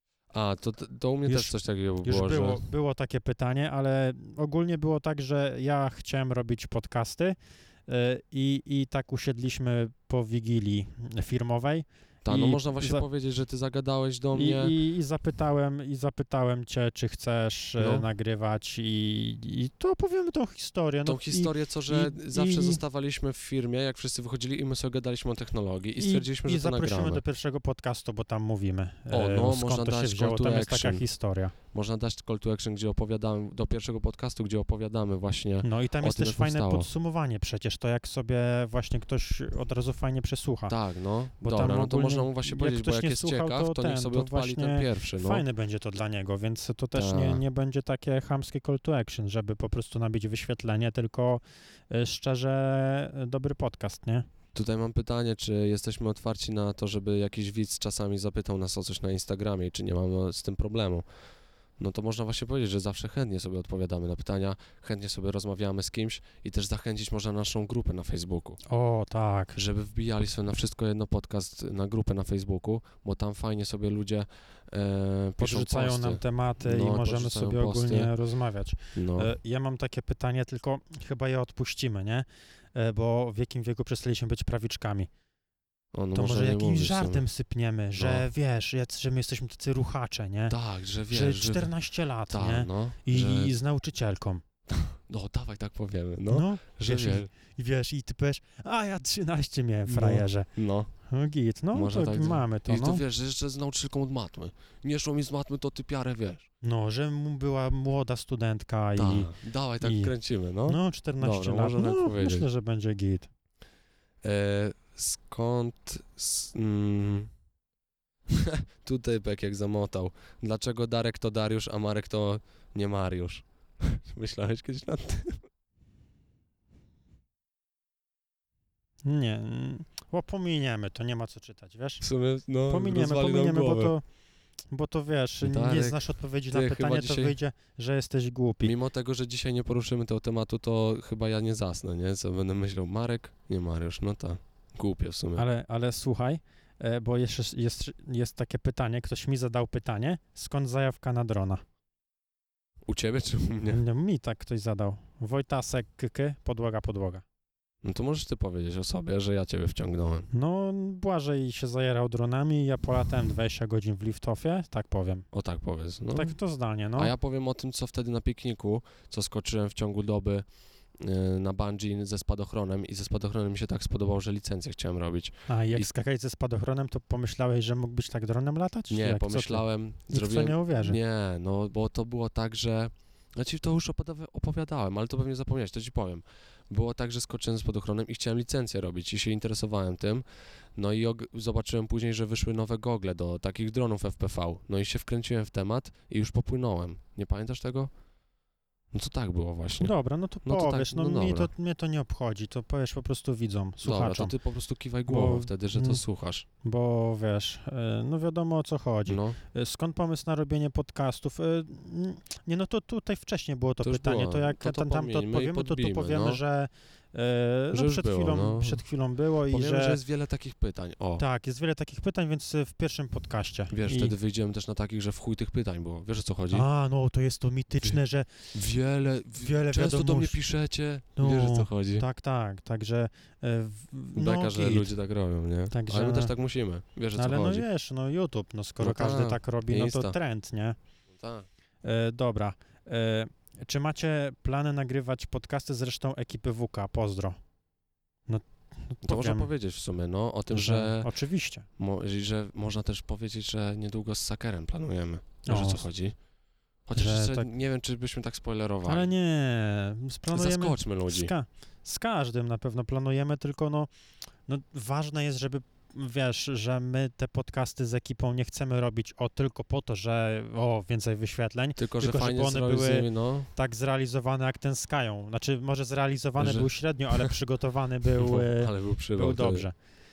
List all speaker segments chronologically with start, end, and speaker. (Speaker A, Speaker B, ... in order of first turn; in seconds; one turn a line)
Speaker A: 0.3-2.6
Speaker B: 1.3-7.4
Speaker B: 7.9-13.0
Speaker A: 12.2-14.7
Speaker B: 14.3-22.8
Speaker A: 17.8-18.1
Speaker A: 21.1-27.2
Speaker B: 26.0-31.5
Speaker A: 29.1-31.1
Speaker A: 31.7-36.9
Speaker B: 35.6-40.8
Speaker A: 40.7-45.4
Speaker B: 41.4-54.2
Speaker A: 47.0-47.4
Speaker A: 54.5-61.0
Speaker A: 61.8-68.6
Speaker B: 68.7-69.6
Speaker A: 69.5-78.1
Speaker B: 75.4-85.1
Speaker A: 79.0-79.3
Speaker A: 85.9-87.2
Speaker B: 86.1-90.5
Speaker A: 88.0-88.2
Speaker A: 90.5-91.7
Speaker B: 91.1-94.4
Speaker A: 92.3-93.6
Speaker A: 94.7-97.3
Speaker B: 96.3-100.5
Speaker A: 99.9-100.9
Speaker B: 101.1-103.0
Speaker A: 101.7-106.5
Speaker B: 106.6-110.1
Speaker A: 109.0-112.5
Speaker B: 110.7-113.3
Speaker A: 114.2-117.3
Speaker A: 118.3-125.4
Speaker B: 129.1-132.0
Speaker A: 132.0-133.9
Speaker B: 132.7-134.0
Speaker B: 134.7-138.8
Speaker A: 135.4-137.4
Speaker A: 138.6-145.4
Speaker B: 145.4-151.6
Speaker A: 152.9-153.8
Speaker B: 153.7-157.2
Speaker A: 157.8-160.3
Speaker B: 160.3-165.2
Speaker A: 165.3-166.4
Speaker B: 166.1-167.1
Speaker A: 167.0-175.9
Speaker B: 175.5-181.0
Speaker A: 178.9-190.2
Speaker A: 190.8-197.9
Speaker A: 198.9-199.9
Speaker B: 199.8-204.3
Speaker A: 200.4-201.5
Speaker A: 203.8-206.5
Speaker B: 205.1-206.0
Speaker B: 206.6-220.0
Speaker A: 209.1-209.4
Speaker A: 213.8-216.4
Speaker A: 217.7-218.8
Speaker A: 219.5-221.2
Speaker B: 221.2-224.1
Speaker A: 223.7-226.7
Speaker B: 226.5-228.5
Speaker A: 228.5-232.0
Speaker B: 229.4-230.4
Speaker B: 231.2-234.9
Speaker A: 234.1-237.6
Speaker B: 235.7-236.3
Speaker B: 237.1-240.8
Speaker A: 238.8-240.2
Speaker A: 241.1-241.5
Speaker B: 241.8-247.4
Speaker B: 248.3-249.5
Speaker A: 249.0-251.1
Speaker B: 250.5-251.7
Speaker A: 251.8-256.1
Speaker B: 255.4-255.9
Speaker A: 256.9-259.1
Speaker B: 257.0-257.5
Speaker B: 258.9-263.9
Speaker A: 260.3-261.3
Speaker B: 264.5-279.8
Speaker A: 271.8-273.5
Speaker A: 276.4-277.3
Speaker A: 278.1-279.6